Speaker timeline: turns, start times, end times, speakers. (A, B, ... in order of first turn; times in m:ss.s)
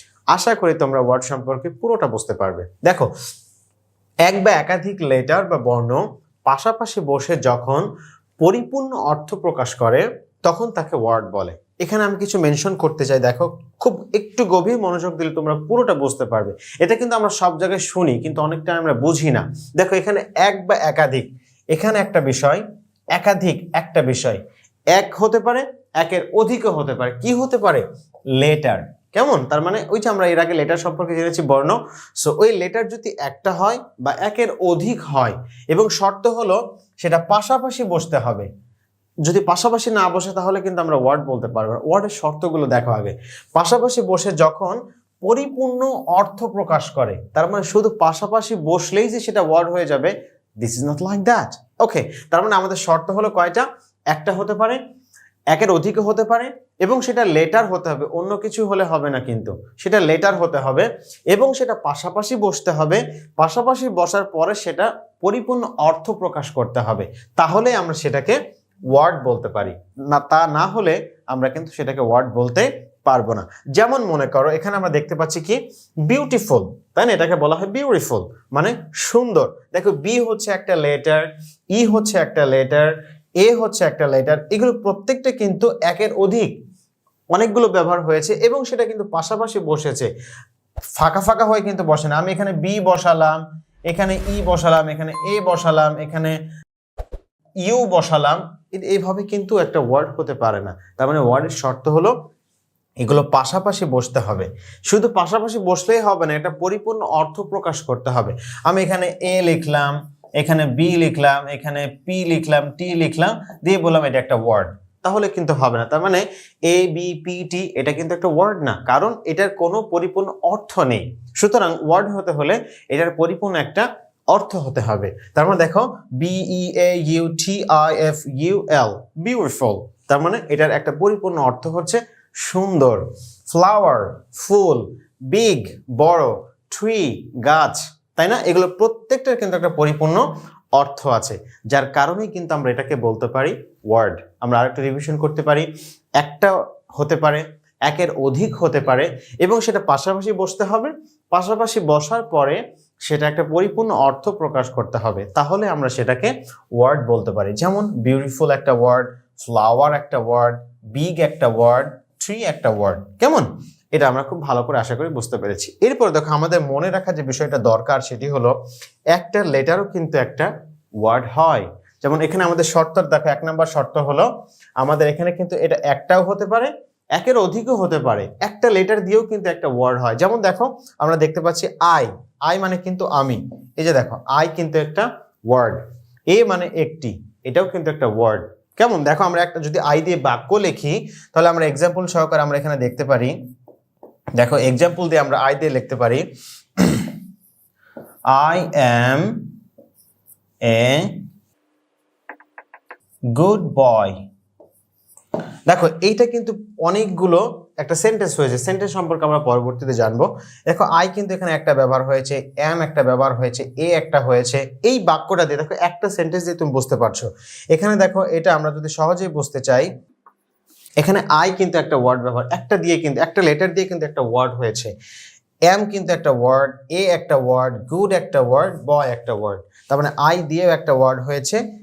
0:00.3-0:03.1 A
0:04.2-0:07.8 A
0:08.4-0:22.6 A
0:23.2-0:24.4 A
0:24.9-0:27.8 A
0:28.4-0:38.5 A
0:39.2-0:54.8 A
0:55.5-1:08.4 A
1:08.9-1:22.9 A
1:23.4-1:26.5 A
1:27.3-1:30.1 A
1:31.0-1:36.4 A
1:37.6-1:42.1 A
1:43.0-2:20.2 A
2:20.8-2:25.7 A
2:26.2-2:48.6 A
2:49.1-2:50.5 A
2:51.0-2:54.3 A
2:54.8-3:13.3 A
3:14.4-3:16.2 A
3:16.8-3:17.1 A
3:18.3-3:19.4 A
3:20.6-3:21.2 A
3:23.3-3:24.2 A
3:25.7-3:39.9 A
3:41.0-3:44.9 A
3:45.7-3:51.6 A